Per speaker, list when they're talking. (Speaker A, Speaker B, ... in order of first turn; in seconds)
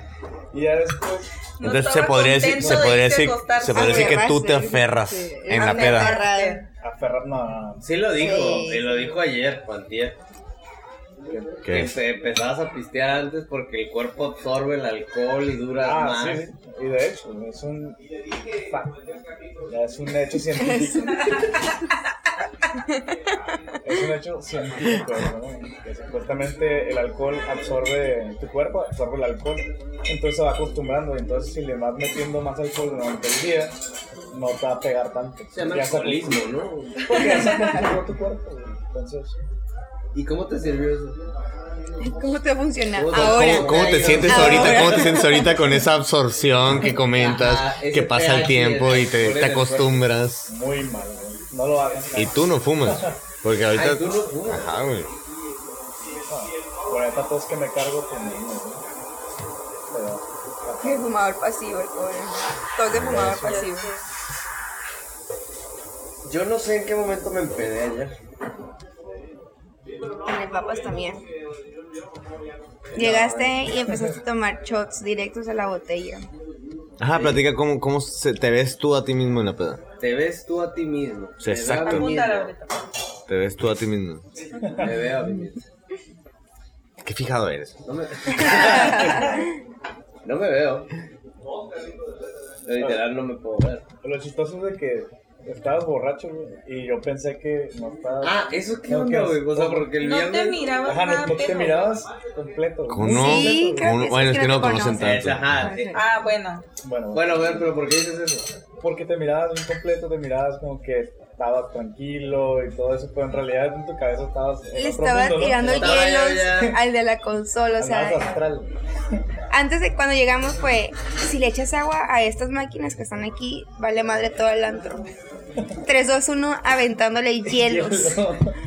Speaker A: 0.5-1.3, 6.8-8.4, 11.3-11.6, 15.8-18.0, 18.7-19.0, 19.7-21.4, 23.8-33.8, 34.3-36.4, 37.0-39.3, 50.5-53.2, 56.3-58.8, 59.9-61.0, 63.0-63.4, 72.9-74.0, 84.7-84.9, 89.1-89.5, 94.0-99.9, 100.8-104.0, 106.8-107.5, 108.8-116.1, 117.8-118.7, 127.5-128.6
Speaker B: 1.6-4.3, 5.5-6.6, 63.4-64.0, 81.8-82.8, 100.0-102.0, 105.9-106.6
Speaker C: 1.6-6.2, 11.6-11.9, 43.1-50.5, 52.1-55.1, 62.9-63.5, 77.0-79.8, 81.4-82.2, 83.3-84.2, 87.0-89.0, 102.9-105.7
Speaker D: 3.7-6.6, 8.2-9.0, 20.6-21.3, 22.8-23.4, 42.0-45.8, 60.8-63.9, 70.2-71.2, 72.9-76.3, 89.0-89.3, 103.0-106.0, 114.7-118.4, 119.5-125.1, 125.8-128.2
Speaker E: 7.8-10.2, 11.7-16.5, 35.5-37.6, 40.1-41.2, 43.0-45.4, 47.1-50.0, 53.7-54.7, 66.2-68.1, 73.0-73.5, 77.1-77.4, 80.0-82.5, 84.7-85.6, 87.8-89.4, 90.2-90.9, 92.6-93.8, 98.2-100.7, 104.8-106.0, 107.1-108.5, 115.6-116.8